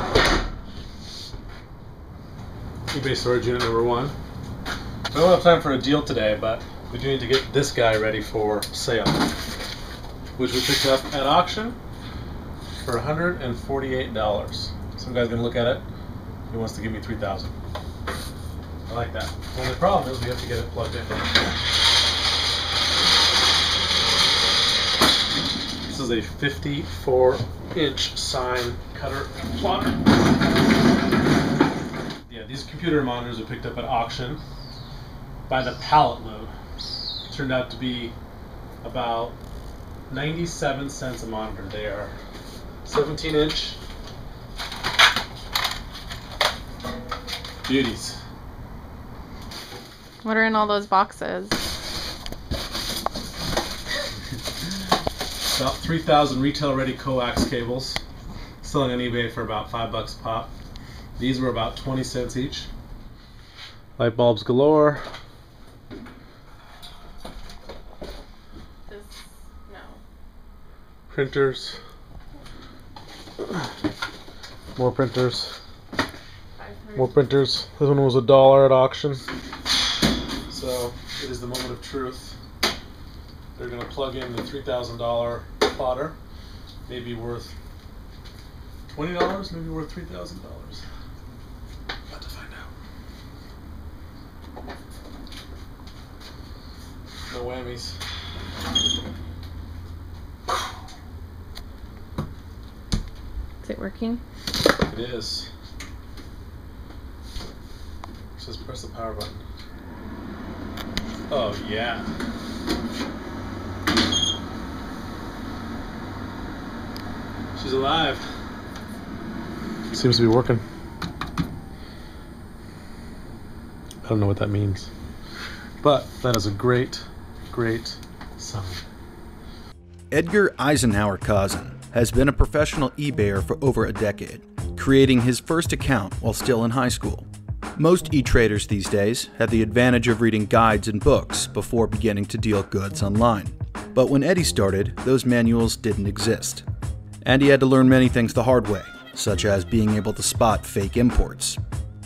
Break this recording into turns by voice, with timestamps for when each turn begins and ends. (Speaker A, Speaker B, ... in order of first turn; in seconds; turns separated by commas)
Speaker A: 2.9-4.2, Speaker A: 5.1-9.3, Speaker A: 10.4-11.8, Speaker A: 12.8-15.9, Speaker A: 16.5-17.6, Speaker A: 18.9-21.2, Speaker A: 25.9-30.0, Speaker A: 32.3-34.4, Speaker A: 35.5-36.5, Speaker A: 37.3-38.2, Speaker A: 38.8-39.4, Speaker A: 40.1-42.1, Speaker A: 42.9-43.8, Speaker A: 47.6-48.2, Speaker B: 50.2-51.6, Speaker A: 55.4-58.0, Speaker A: 58.6-60.5, Speaker A: 61.2-62.7, Speaker A: 64.0-65.0, Speaker B: 68.9-70.0, Speaker A: 71.1-71.8, Speaker A: 74.8-75.6, Speaker B: 76.6-77.2, Speaker A: 77.0-79.2, Speaker A: 80.5-82.4, Speaker A: 83.6-86.2, Speaker A: 86.9-87.6, Speaker A: 88.9-90.8, Speaker A: 92.1-92.7, Speaker A: 97.3-98.0, Speaker B: 103.6-104.2, Speaker A: 104.8-105.5, Speaker A: 108.4-109.4, Speaker A: 111.3-112.1, Speaker A: 117.6-118.3, Speaker A: 119.9-120.6, Speaker A: 124.0-124.9, Speaker A: 125.8-128.8, Speaker C: 130.1-146.7, Speaker C: 147.2-151.6